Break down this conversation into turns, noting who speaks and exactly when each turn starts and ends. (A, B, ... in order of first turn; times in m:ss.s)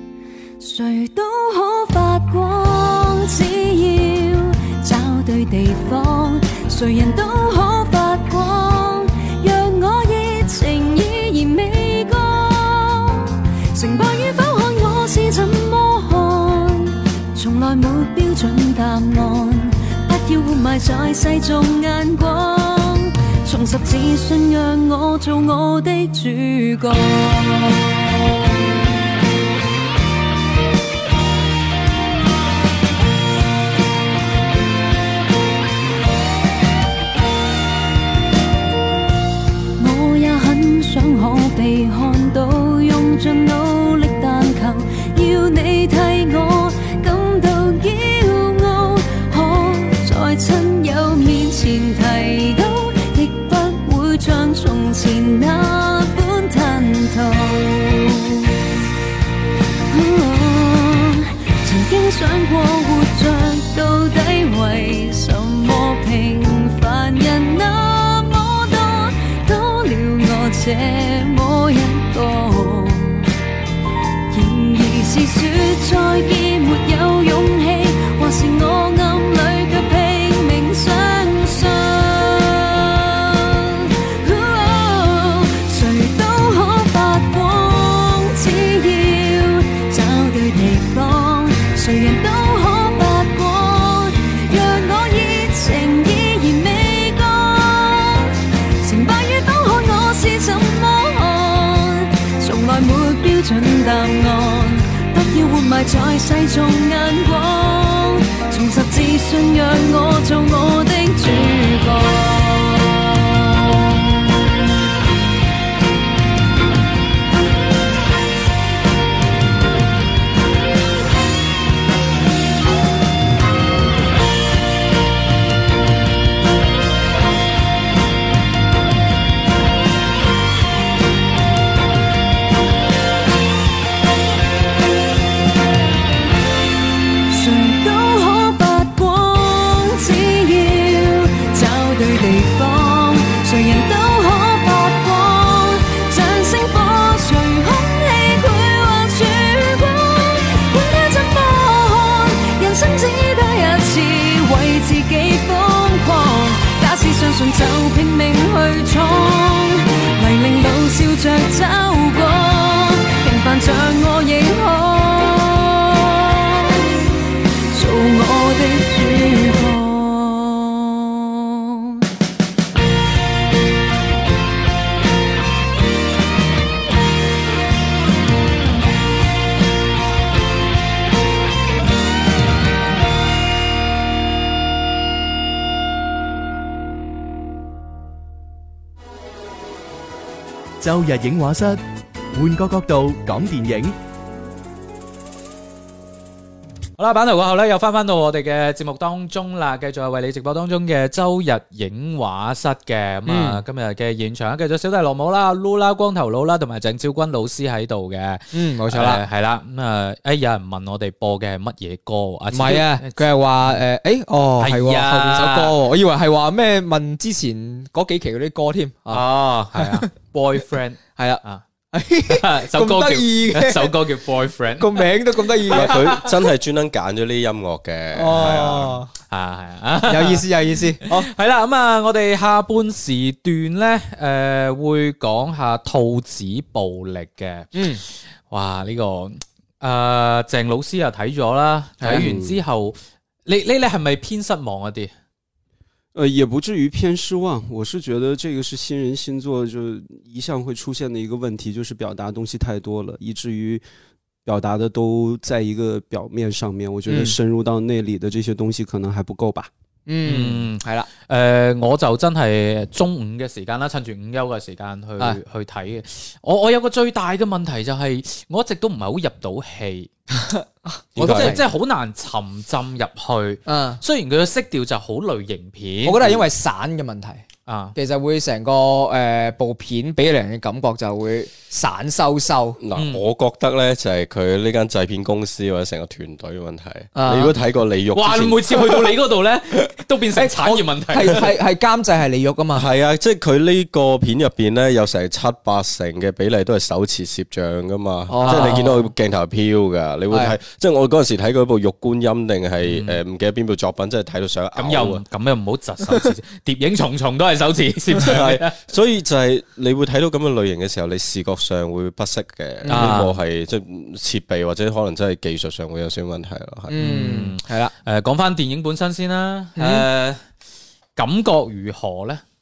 0:00.6-0:28.0 A
0:39.8-0:58.5 A
0:59.9-1:13.3 A
1:14.3-1:53.8 A
2:17.3-2:46.8 A
2:47.7-2:52.0 A
3:10.8-3:11.8 B
3:12.3-3:13.9 B
3:17.0-3:33.8 C
3:23.2-3:23.6 D
3:28.5-3:29.2 D
3:32.5-3:40.1 D
3:34.6-3:35.8 C
3:39.1-3:41.6 C
3:41.2-3:44.0 D
3:42.3-3:46.4 C
3:44.8-3:46.2 D
3:45.7-3:48.9 E
3:48.1-3:49.1 D
3:48.3-4:05.1 C
3:50.0-3:51.3 D
3:57.7-3:58.0 D
4:02.0-4:02.3 D
4:02.1-4:02.6 F
4:06.1-4:13.8 F
4:14.4-4:19.7 F
4:17.1-4:17.3 D
4:20.1-4:21.1 D
4:20.2-4:30.1 C
4:30.3-4:31.6 D
4:31.2-4:31.6 E
4:31.2-4:36.2 C
4:33.6-4:34.0 D
4:36.0-4:37.4 D
4:37.6-4:38.0 C
4:37.9-4:42.8 D
4:42.8-4:49.0 E
4:42.9-4:43.2 C
4:47.1-4:47.5 D
4:48.1-4:51.5 C
4:50.3-4:52.9 D
4:52.7-5:05.2 E
4:58.3-4:59.1 D
4:58.4-4:58.9 C
5:00.3-5:00.6 D
5:02.8-5:03.2 C
5:04.7-5:08.8 C
5:08.2-5:17.0 E
5:12.8-5:13.2 D
5:12.9-5:13.4 C
5:16.9-5:17.9 D
5:17.0-5:20.4 C
5:19.8-5:20.1 D
5:21.2-5:22.4 C